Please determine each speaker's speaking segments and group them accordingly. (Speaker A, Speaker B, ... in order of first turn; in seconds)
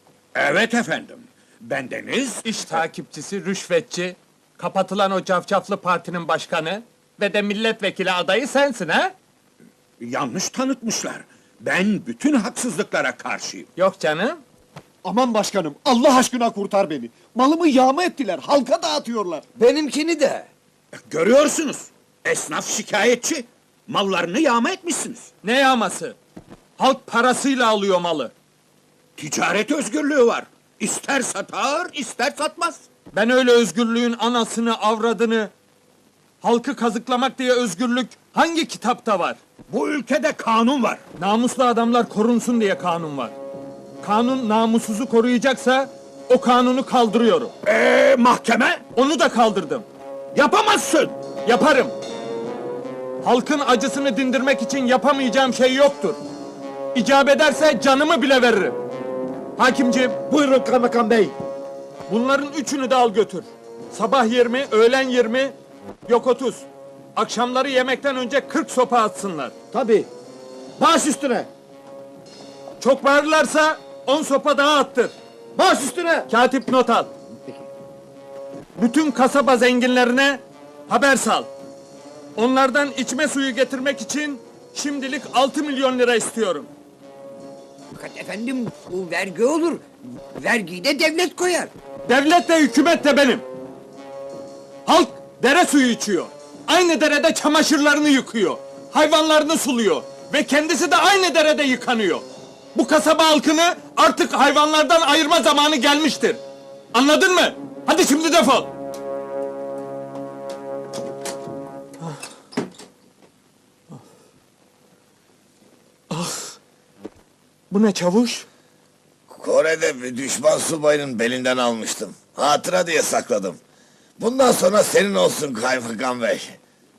Speaker A: 0.3-2.8, 10.0-13.7, 20.9-25.3, 29.2-32.8, 39.7-41.0, 47.6-48.8, 50.3-51.2
Speaker B: 2.4-9.1, 13.8-14.4, 25.4-26.1, 26.8-28.3, 33.1-35.5, 36.4-39.4, 41.2-43.3, 44.0-47.5, 48.9-49.9, 51.4-51.9, 53.2-56.2, 56.9-58.8, 59.5-60.2, 62.1-65.5, 66.1-69.5, 72.8-75.1, 76.3-77.1, 78.8-81.5, 82.3-86.7, 92.1-93.4, 94.8-106.4, 106.9-108.7, 116.1-116.6, 117.7-118.5
Speaker C: 15.0-19.4
Speaker D: 19.6-20.5, 60.3-61.3, 69.7-70.1, 70.8-71.5, 75.5-76.3
Speaker E: 88.0-89.8, 90.3-91.7
Speaker F: 119.3-123.6, 124.2-126.6